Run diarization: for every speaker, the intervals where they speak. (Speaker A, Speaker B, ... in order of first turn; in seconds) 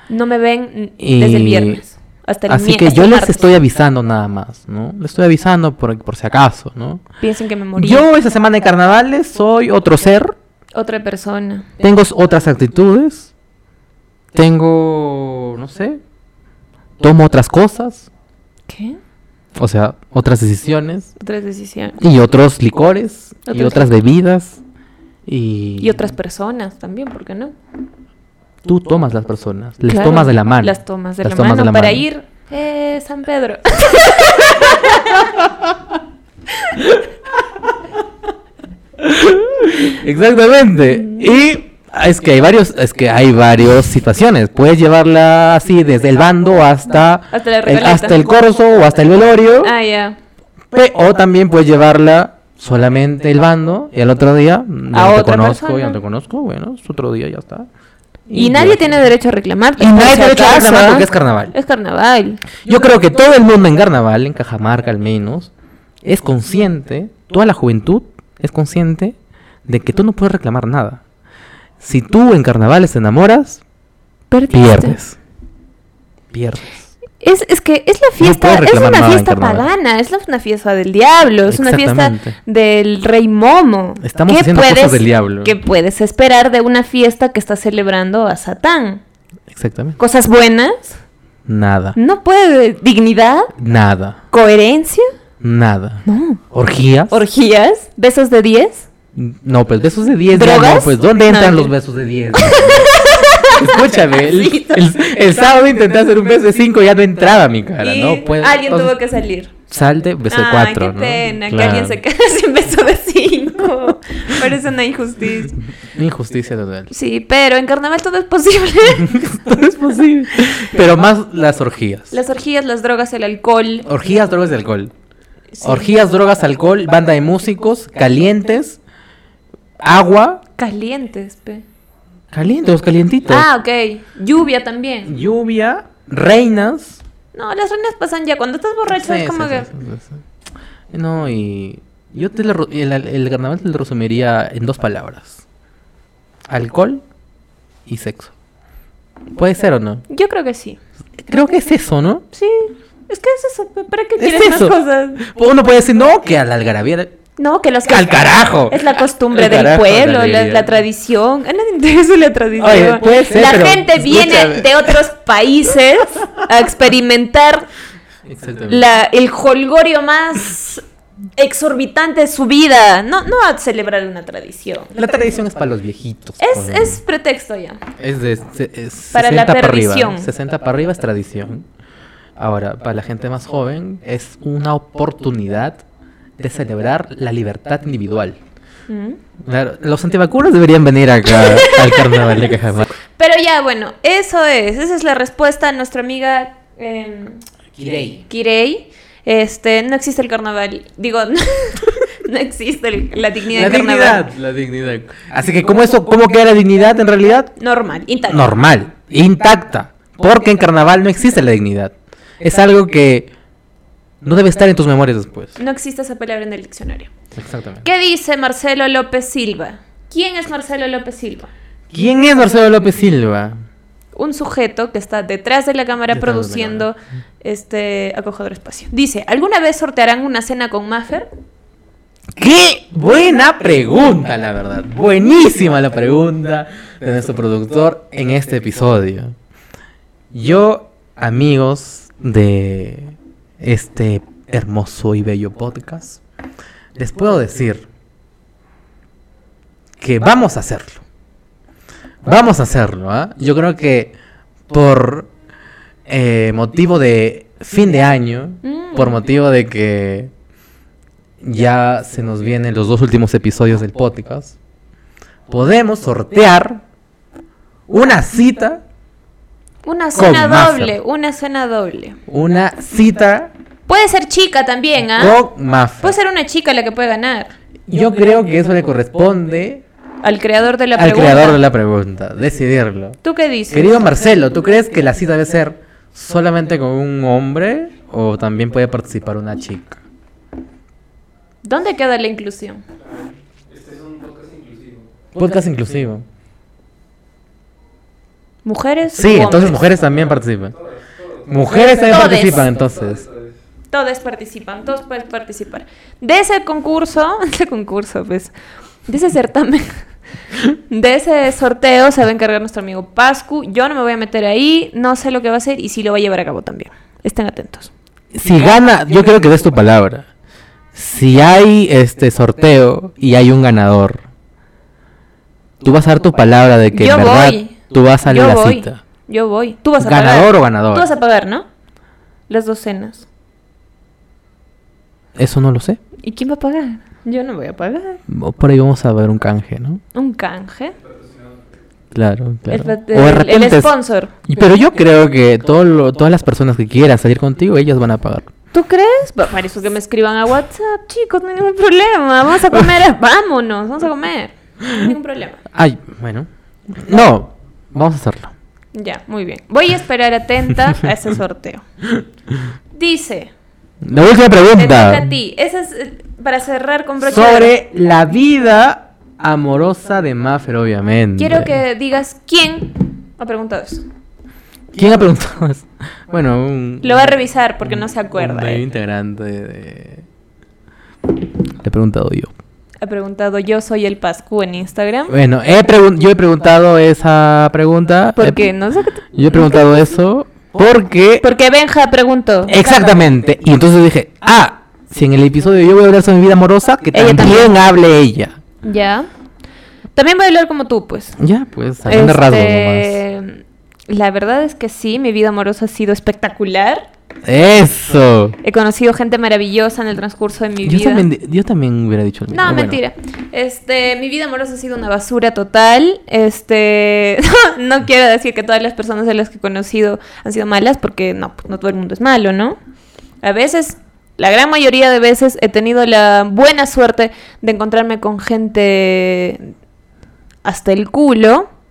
Speaker A: 0.1-3.5, 7.2-8.1, 10.8-11.7, 18.7-19.0, 21.2-22.0, 23.5-23.9, 25.8-27.5, 29.9-35.3, 47.3-48.2, 49.6-50.2, 54.9-56.0, 58.3-62.4, 74.3-75.0, 77.2-89.0, 90.0-91.0, 92.0-93.5, 94.3-95.1, 96.1-96.4, 97.1-98.9, 100.3-101.7, 102.3-105.0, 107.8-109.6, 110.3-115.6, 116.9-119.3, 122.1-123.9, 125.5-125.9, 130.6-131.7, 133.3-135.1, 137.3-139.7, 150.1-150.8, 152.3-155.2, 157.4-167.7, 168.7-170.8, 171.4-174.9, 176.4-177.8, 179.1-180.3, 188.9-189.2, 191.3-192.6, 193.2-197.4, 198.3-204.3, 207.6-208.5, 215.6-217.1, 217.8-221.5, 224.2-231.3, 258.6-259.2, 269.9-272.2, 273.9-275.4, 276.0-277.5, 280.2-281.6, 283.2-284.1, 291.6-292.8, 298.6-299.8, 301.6-302.7, 303.9-308.5, 309.1-310.0, 310.9-317.9, 326.9-327.8, 328.3-331.7, 332.5-333.3, 336.2-338.2, 340.1-340.9, 342.7-344.3, 348.7-355.6, 358.9-361.8, 362.9-363.5, 364.8-367.7, 371.4-374.1, 377.0-378.8, 383.0-385.4, 388.4-390.1, 391.4-393.3, 397.1-397.7, 398.8-399.3, 400.2-401.4, 402.1-407.1, 408.6-411.3, 412.5-422.8, 423.4-429.7, 430.6-431.7
Speaker B: 1.0-1.8, 2.5-7.0, 7.8-10.3, 11.8-13.3, 14.3-16.0, 17.0-18.1, 19.6-21.1, 22.0-24.6, 25.3-26.0, 28.6-32.0, 39.0-49.8, 50.7-57.7, 58.3-59.0, 59.8-61.5, 62.6-65.5, 66.0-69.2, 69.7-71.0, 71.8-73.6, 74.5-75.2, 76.3-76.8, 78.2-79.7, 81.5-82.4, 84.0-85.5, 89.5-90.0, 91.5-92.0, 93.6-94.2, 95.4-97.1, 99.2-109.0, 109.7-112.0, 115.9-116.9, 119.0-122.1, 123.9-124.9, 125.6-128.8, 129.8-130.4, 132.3-133.5, 135.1-137.0, 138.9-140.2, 140.9-145.4, 146.5-147.0, 147.9-148.3, 149.4-150.0, 151.2-152.2, 154.2-157.1, 157.8-160.8, 162.6-165.0, 168.2-168.9, 174.9-177.0, 178.0-181.7, 182.4-185.8, 186.4-188.4, 189.4-192.9, 197.7-198.2, 203.5-207.5, 208.3-213.3, 214.2-215.6, 217.4-217.9, 221.9-223.6, 226.1-226.9, 232.4-239.3, 240.3-246.2, 247.0-247.9, 250.0-251.0, 252.2-254.2, 254.7-255.3, 256.1-260.3, 261.4-264.6, 265.5-266.8, 267.9-268.8, 270.1-271.0, 272.3-273.5, 275.2-276.1, 277.9-279.8, 280.9-283.2, 283.7-290.0, 295.4-296.2, 299.1-300.8, 301.5-303.2, 318.3-320.3, 320.9-324.2, 325.8-329.0, 330.0-331.1, 335.4-336.0, 338.3-340.0, 342.1-343.9, 344.5-348.5, 355.7-358.5, 364.0-365.3, 367.2-371.8, 374.9-380.2, 381.8-382.5, 385.3-388.6, 389.4-391.4, 392.7-398.6, 401.4-403.2, 407.4-408.6, 410.8-413.0
Speaker C: 293.0-295.1, 299.7-303.6, 341.0-341.7